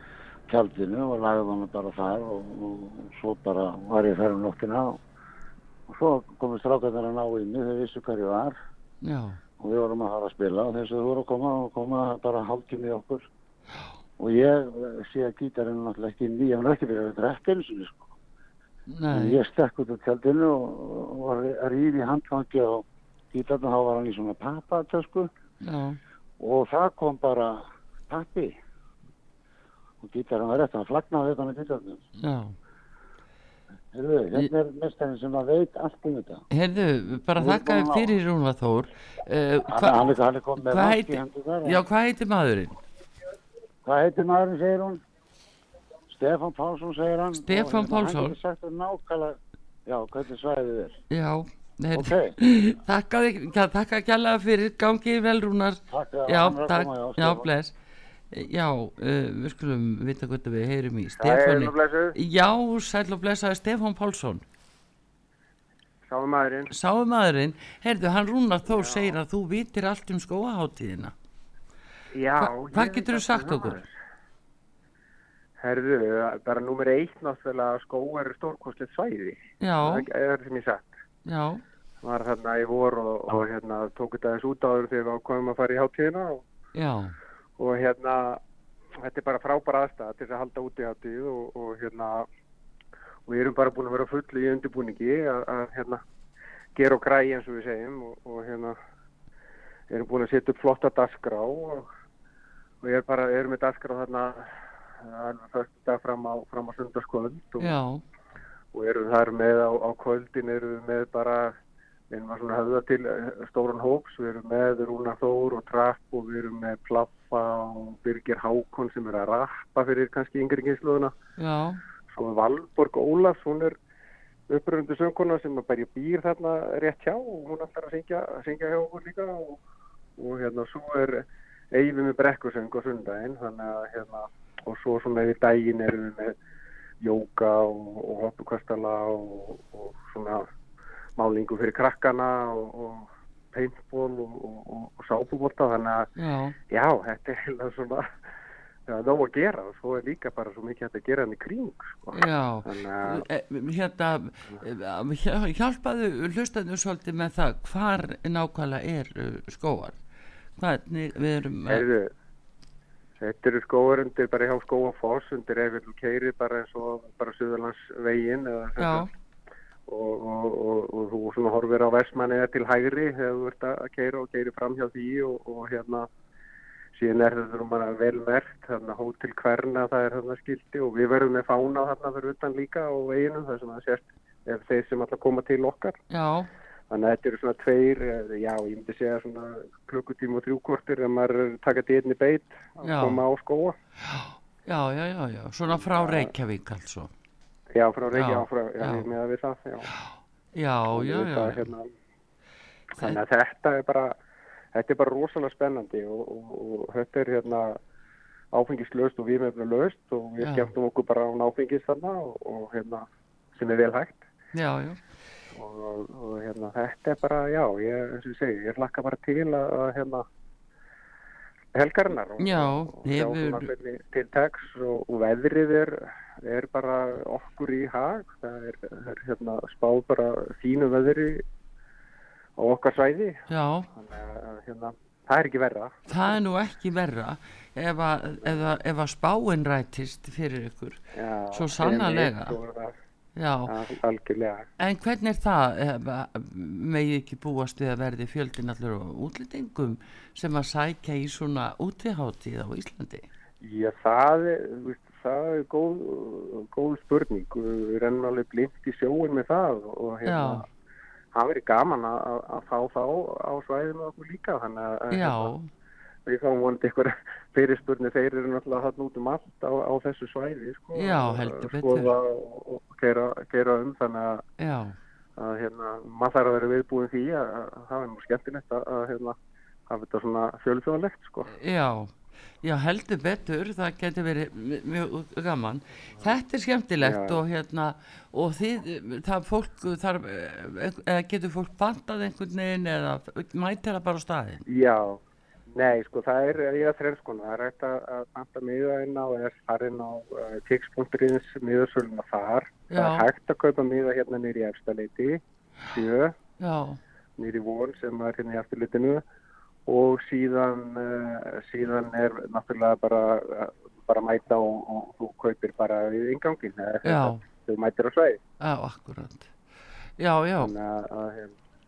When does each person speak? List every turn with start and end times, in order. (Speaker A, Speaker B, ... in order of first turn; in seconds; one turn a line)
Speaker A: 0.5-5.0
Speaker A: 5.9-8.6
Speaker B: 9.0-9.4
Speaker A: 9.6-13.3
Speaker A: 14.2-18.1
Speaker B: 18.9-19.4
Speaker A: 19.1-25.3
Speaker B: 25.6-26.0
Speaker A: 26.4-28.6
Speaker A: 30.0-32.0
Speaker B: 32.2-32.5
Speaker A: 33.9-36.4
Speaker B: 36.5-40.0
Speaker A: 37.4-38.2
Speaker A: 39.7-41.8
Speaker B: 40.6-42.8
Speaker A: 43.8-45.0
Speaker A: 46.1-51.0
Speaker B: 47.5-48.3
Speaker B: 51.1-57.7
Speaker A: 51.9-52.3
Speaker A: 55.9-57.5
Speaker B: 58.3-64.4
Speaker C: 61.2-62.1
Speaker C: 66.1-66.7
Speaker B: 66.7-71.1
Speaker C: 68.7-69.2
Speaker C: 72.1-73.9
Speaker B: 72.4-73.8
Speaker C: 75.6-80.9
Speaker B: 79.6-80.0
Speaker B: 81.2-81.6
Speaker C: 82.0-86.4
Speaker B: 86.7-87.2
Speaker C: 87.6-88.4
Speaker C: 89.0-92.3
Speaker C: 93.3-96.0
Speaker C: 96.8-98.8
Speaker C: 99.9-101.9
Speaker C: 102.8-107.7
Speaker B: 107.6-108.0
Speaker C: 108.7-111.5
Speaker C: 112.1-121.1
Speaker B: 121.4-121.8
Speaker C: 122.1-123.8
Speaker C: 124.5-129.6
Speaker C: 130.2-136.4
Speaker C: 137.0-140.5
Speaker C: 141.2-146.1
Speaker B: 146.2-146.6
Speaker C: 146.7-148.1
Speaker C: 148.9-153.2
Speaker B: 152.1-160.0
Speaker B: 160.6-161.8
Speaker C: 161.7-162.1
Speaker C: 163.2-169.1
Speaker B: 168.8-169.1
Speaker C: 169.9-176.1
Speaker C: 176.9-186.0
Speaker B: 186.1-186.5
Speaker C: 186.9-193.8
Speaker B: 192.8-193.2
Speaker B: 194.0-197.1
Speaker C: 195.7-196.3
Speaker C: 197.7-199.9
Speaker B: 198.1-199.1
Speaker B: 200.5-201.7
Speaker C: 200.9-201.9
Speaker C: 203.0-204.1
Speaker C: 204.7-207.8
Speaker C: 208.5-214.2
Speaker B: 210.4-210.7
Speaker B: 214.5-215.0
Speaker C: 215.5-220.2
Speaker C: 221.7-231.4
Speaker B: 222.4-223.7
Speaker C: 232.6-233.4
Speaker B: 233.5-233.9
Speaker C: 233.9-236.4
Speaker B: 236.1-241.0
Speaker C: 241.1-242.9
Speaker B: 241.5-242.6
Speaker B: 243.3-243.7
Speaker C: 243.7-244.7
Speaker B: 244.8-253.3
Speaker C: 253.6-260.6
Speaker B: 260.2-260.6
Speaker C: 261.3-265.5
Speaker B: 265.1-265.7
Speaker C: 266.2-274.4
Speaker B: 270.9-272.1
Speaker B: 274.6-274.9
Speaker C: 275.4-279.3
Speaker C: 279.9-281.5
Speaker B: 281.5-282.1
Speaker B: 282.6-294.6
Speaker C: 287.0-287.4
Speaker C: 294.7-295.2
Speaker C: 295.7-306.3
Speaker B: 302.9-303.2
Speaker B: 306.6-307.0
Speaker C: 307.4-309.2
Speaker C: 309.9-318.4
Speaker B: 317.0-317.4
Speaker B: 318.6-319.5
Speaker B: 320.2-320.7
Speaker C: 320.6-321.5